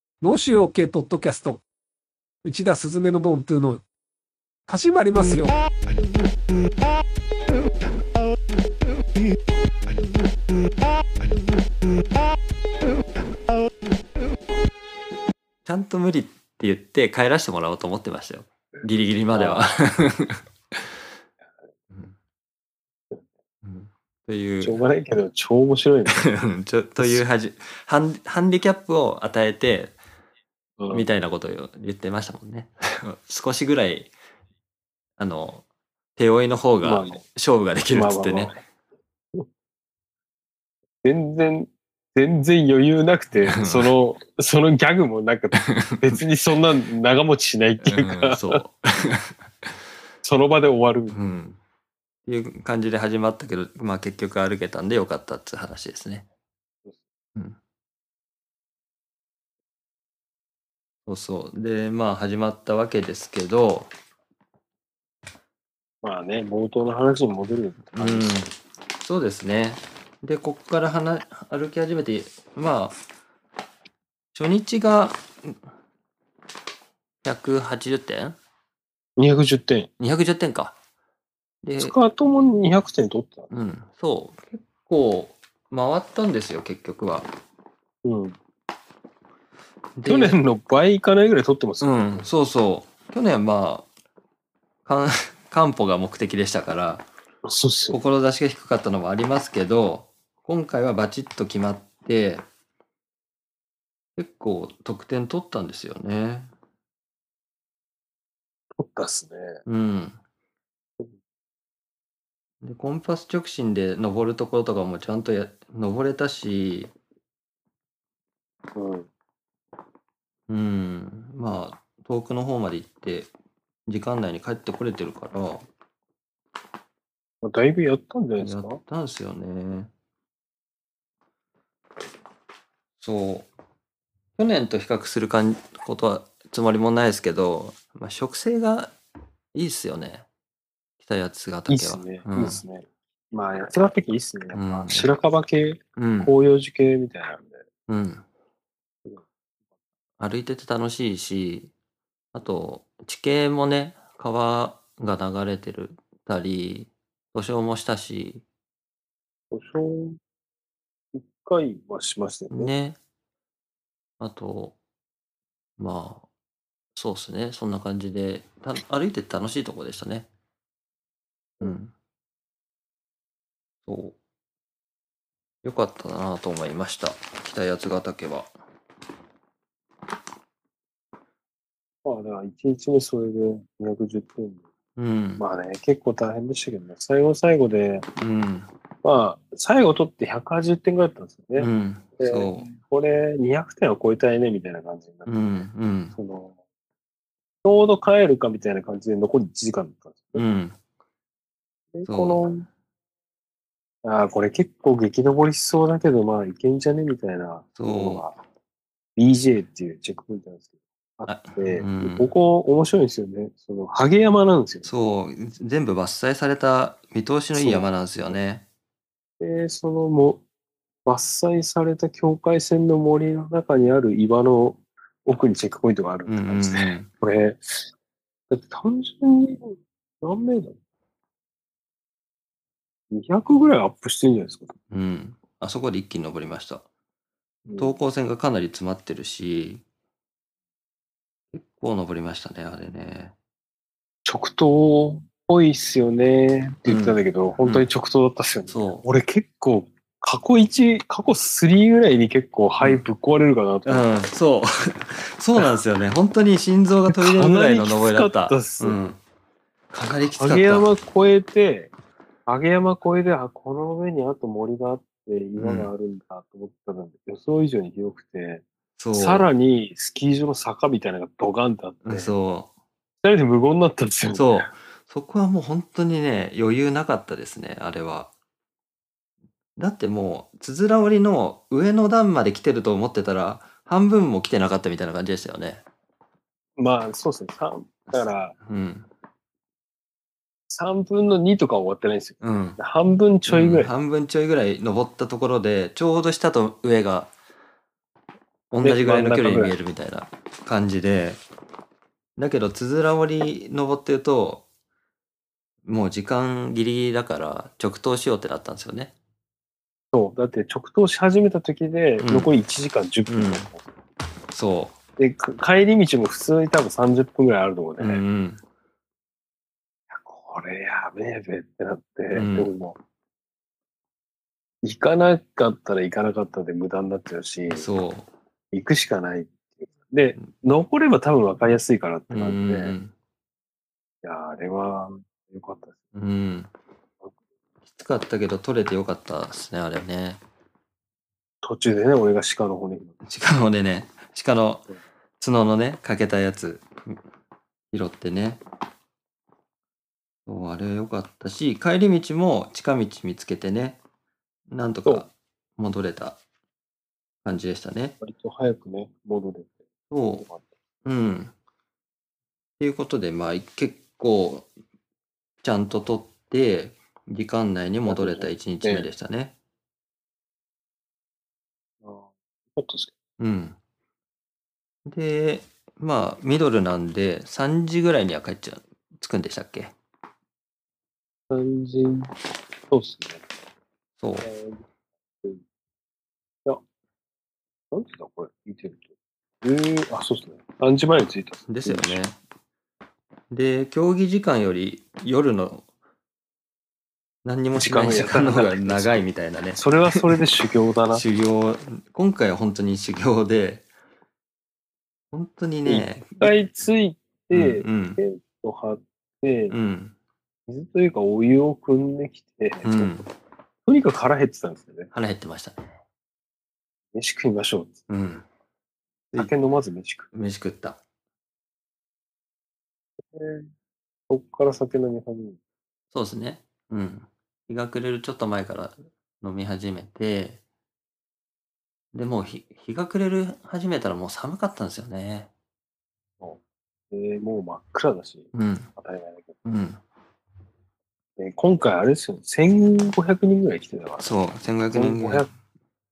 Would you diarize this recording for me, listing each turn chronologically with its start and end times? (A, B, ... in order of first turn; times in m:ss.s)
0:00.2-0:01.6 A
0:02.4-0:03.8 A
0:04.7-0:05.5 A
0:15.6-0:20.9 B
0:19.3-0:19.7 C
0:23.6-0:24.8 B
0:24.6-0:26.3 C
0:26.1-0:29.9 B
0:30.8-0:31.0 C
0:30.9-0:34.1 B
0:35.2-0:35.6 B
0:36.2-0:38.5 B
0:36.8-0:37.2 C
0:37.9-0:38.6 C
0:41.0-0:48.6 C
0:43.4-0:43.9 B
0:45.7-0:46.1 B
0:47.8-0:49.8 B
0:50.2-0:51.2 C
0:51.1-0:51.6 B
0:52.3-0:56.2 B
1:01.1-1:03.9 B
1:06.0-1:08.3 C
1:07.9-1:13.0 B
1:14.3-1:15.6 B
1:17.2-1:18.4 B
1:19.2-1:19.9 C
1:20.0-1:20.8 B
1:21.6-1:21.9 B
1:21.8-1:23.5 C
1:23.5-1:27.3 B
1:28.0-1:28.4 C
1:30.0-1:30.4 B
1:30.0-1:32.3 C
1:31.8-1:33.9 B
1:34.8-1:37.0 B
1:37.4-1:38.0 C
1:37.9-1:42.4 B
1:44.2-1:46.5 B
1:48.8-1:49.6 C
1:49.6-1:50.2 B
1:52.6-1:56.9 B
1:58.7-1:59.1 C
2:00.5-2:03.3 B
2:03.9-2:05.7 B
2:07.4-2:08.8 C
2:08.4-2:09.9 B
2:13.0-2:13.5 B
2:14.4-2:18.9 B
2:19.5-2:20.2 B
2:21.0-2:22.6 B
2:21.7-2:27.6 C
2:24.5-2:25.1 B
2:26.0-2:26.3 B
2:27.9-2:28.2 B
2:30.2-2:31.7 B
2:32.3-2:38.4 B
2:39.5-2:40.2 C
2:41.1-2:42.7 C
2:42.5-2:43.0 B
2:44.2-2:44.8 B
2:45.8-2:46.2 B
2:46.9-2:50.3 B
2:51.6-2:51.9 B
2:53.8-2:54.2 B
2:55.6-2:58.5 B
3:02.0-3:04.6 C
3:05.0-3:05.4 B
3:05.4-3:08.1 C
3:08.2-3:08.7 B
3:09.0-3:16.5 C
3:11.6-3:12.7 B
3:15.3-3:16.2 B
3:17.6-3:20.4 C
3:20.3-3:20.8 B
3:21.9-3:22.6 C
3:22.0-3:22.4 B
3:24.0-3:28.4 C
3:27.8-3:28.3 B
3:29.2-3:34.9 C
3:31.3-3:32.3 B
3:34.8-3:38.6 B
3:37.5-3:37.9 C
3:39.4-3:40.4 C
3:41.0-3:47.9 C
3:46.3-3:47.1 B
3:48.5-3:50.8 C
3:53.1-3:54.7 C
3:54.9-3:56.8 B
3:57.7-3:58.0 C
3:57.8-3:59.8 B
4:01.5-4:03.3 B
4:04.2-4:14.1 C
4:06.8-4:07.8 B
4:08.7-4:09.0 B
4:13.8-4:19.2 B
4:17.1-4:19.0 C
4:19.9-4:20.9 B
4:20.3-4:21.9 C
4:22.4-4:32.3 C
4:25.6-4:25.9 B
4:29.0-4:29.5 B
4:32.0-4:32.7 B
4:33.2-4:34.7 C
4:34.3-4:38.3 B
4:39.8-4:45.8 B
4:46.8-4:48.6 C
4:48.1-4:49.1 B
4:50.7-4:53.9 C
4:52.4-4:52.8 B
4:53.5-4:57.3 B
4:58.7-5:01.4 B
4:58.8-4:59.8 C
5:02.4-5:04.6 B
5:05.8-5:09.1 B
5:10.1-5:13.8 C
5:12.2-5:12.5 B
5:13.3-5:13.7 B
5:14.5-5:15.0 B
5:15.2-5:18.2 C
5:18.0-5:18.6 B
5:20.1-5:23.0 C
5:22.3-5:22.7 B
5:24.8-5:27.9 C
5:27.7-5:28.3 B
5:28.7-5:33.0 C
5:32.3-5:33.1 B
5:34.2-5:36.0 C
5:36.1-5:36.7 B
5:37.8-5:40.4 B
5:41.6-5:43.1 C
5:43.2-5:44.8 B
5:45.4-5:47.2 B
5:47.9-5:48.6 B
5:50.4-5:54.0 B
5:54.7-5:56.4 B
5:57.4-5:58.2 B
5:58.2-5:59.7 C
6:00.1-6:00.4 B
6:01.0-6:01.5 B
6:02.8-6:04.7 B
6:05.6-6:09.5 B
6:08.0-6:09.1 C
6:12.0-6:13.1 C
6:13.4-6:13.8 B
6:15.0-6:19.9 B
6:21.5-6:22.3 C
6:22.9-6:23.4 C
6:24.2-6:24.5 B
6:24.4-6:24.8 C
6:27.9-6:29.0 C
6:29.6-6:32.2 C
6:31.7-6:32.3 B
6:33.5-6:35.8 B
6:37.4-6:40.4 B
6:37.7-6:41.2 C
6:41.1-6:43.8 B
6:45.3-6:46.5 B
6:45.8-6:49.8 C
6:47.5-6:48.2 B
6:49.7-6:50.1 B
6:50.7-6:53.1 C
6:52.8-6:53.3 B
6:53.8-6:55.1 C
6:55.1-6:55.9 B
6:57.1-6:58.0 C
6:58.1-6:58.4 B
6:59.3-7:00.3 C
7:00.3-7:01.0 B
7:03.3-7:03.7 C
7:04.3-7:05.6 C
7:06.1-7:10.6 B
7:12.1-7:15.5 B
7:17.1-7:19.5 C
7:18.5-7:18.9 B
7:19.6-7:20.0 B
7:21.4-7:24.3 C
7:24.2-7:25.4 B
7:24.9-7:25.5 C